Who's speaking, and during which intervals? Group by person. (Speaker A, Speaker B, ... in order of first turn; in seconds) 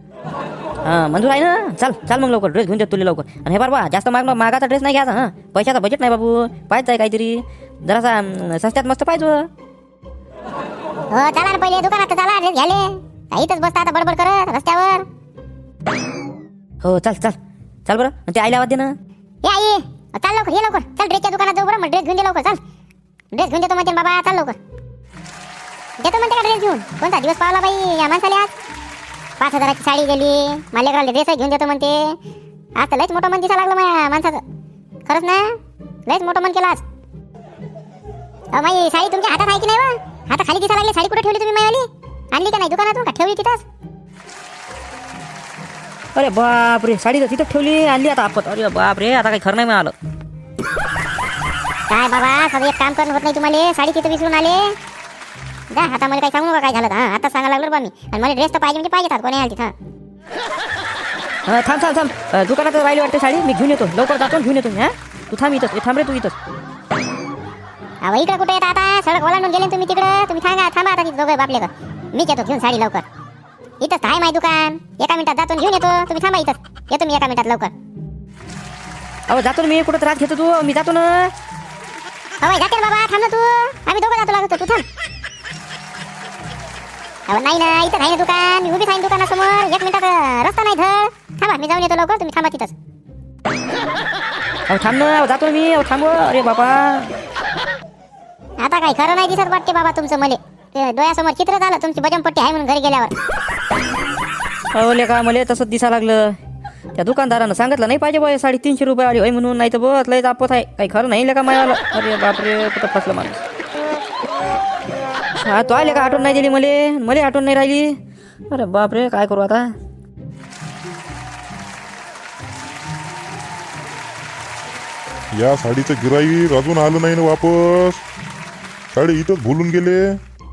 Speaker A: 0.8-9.5, 16.8-18.9, 46.1-49.9, 61.5-66.3, 79.3-81.3, 94.7-97.1, 104.7-106.4, 107.0-113.4, 115.4-118.0, 118.5-119.7
Speaker B: 11.1-15.0, 19.4-22.6, 23.3-24.6, 26.0-28.5, 29.4-32.1, 32.8-34.4, 35.1-35.5, 36.1-36.8, 38.5-43.6, 51.9-54.8, 55.7-59.7, 68.0-73.0, 73.8-77.7, 82.4-84.8, 87.3-92.7, 98.6-103.1
Speaker C: 125.3-128.0, 128.9-130.2